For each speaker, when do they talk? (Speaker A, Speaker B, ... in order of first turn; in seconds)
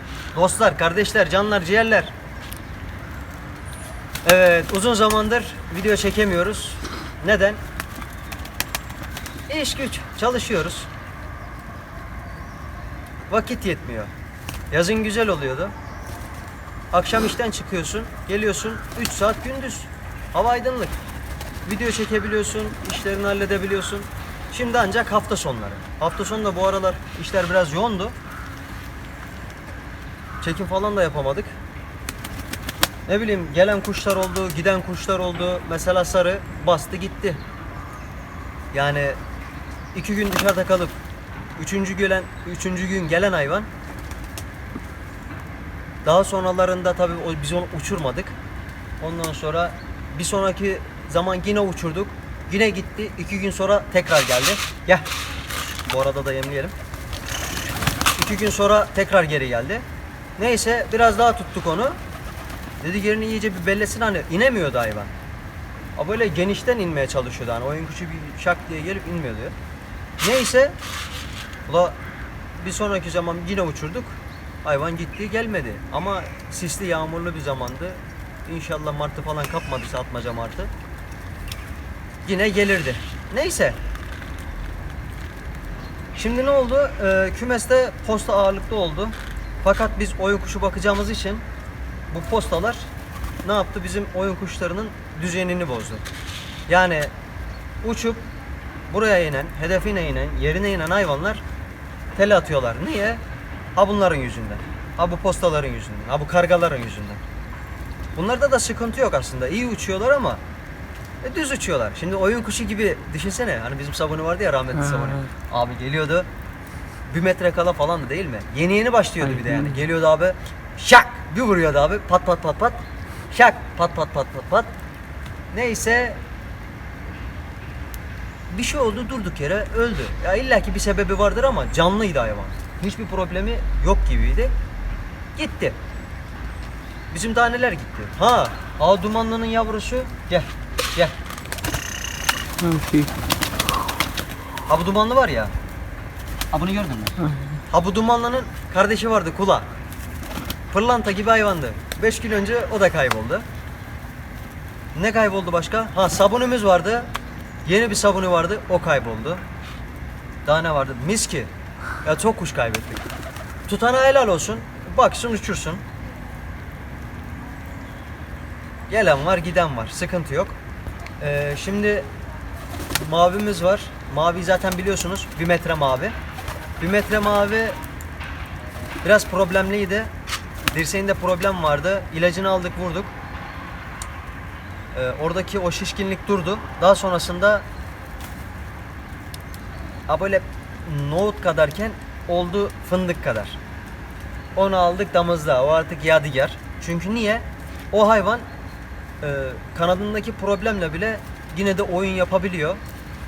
Speaker A: 0.3-2.1, 4.2-7.6, 9.5-10.9, 13.3-14.1, 14.7-15.7, 16.9-20.9, 21.7-28.2, 30.4-31.6, 33.1-37.4, 38.7-39.2, 39.9-41.0, 41.6-43.7, 46.0-48.4, 49.0-55.1, 55.9-56.7, 58.1-59.9, 60.4-62.0, 62.8-65.1, 66.0-69.6, 70.2-70.8, 71.7-72.0, 72.6-80.7, 82.2-83.8, 86.2-91.4, 92.1-92.9, 93.4-96.0, 96.7-97.1, 97.8-98.2, 98.9-101.4, 102.2-103.2, 103.8-107.2, 108.2-110.4, 111.2-116.3, 117.1-124.7, 125.5-126.2, 128.5-134.5, 135.4-135.8, 137.1-141.2, 144.7-145.5, 146.5-147.2, 147.7-149.7, 150.7-153.4, 154.9-157.1, 157.7-159.4, 160.4-161.5, 162.1-163.1, 163.7-165.8, 168.9-170.6, 171.2-172.1, 173.0-176.2, 176.8-177.8, 179.0-180.1, 180.7-183.1, 184.9-187.7, 190.1-193.6, 194.6-198.4, 199.2-202.8
Speaker B: 114.8-115.3, 119.2-119.8, 142.6-143.1, 147.2-147.6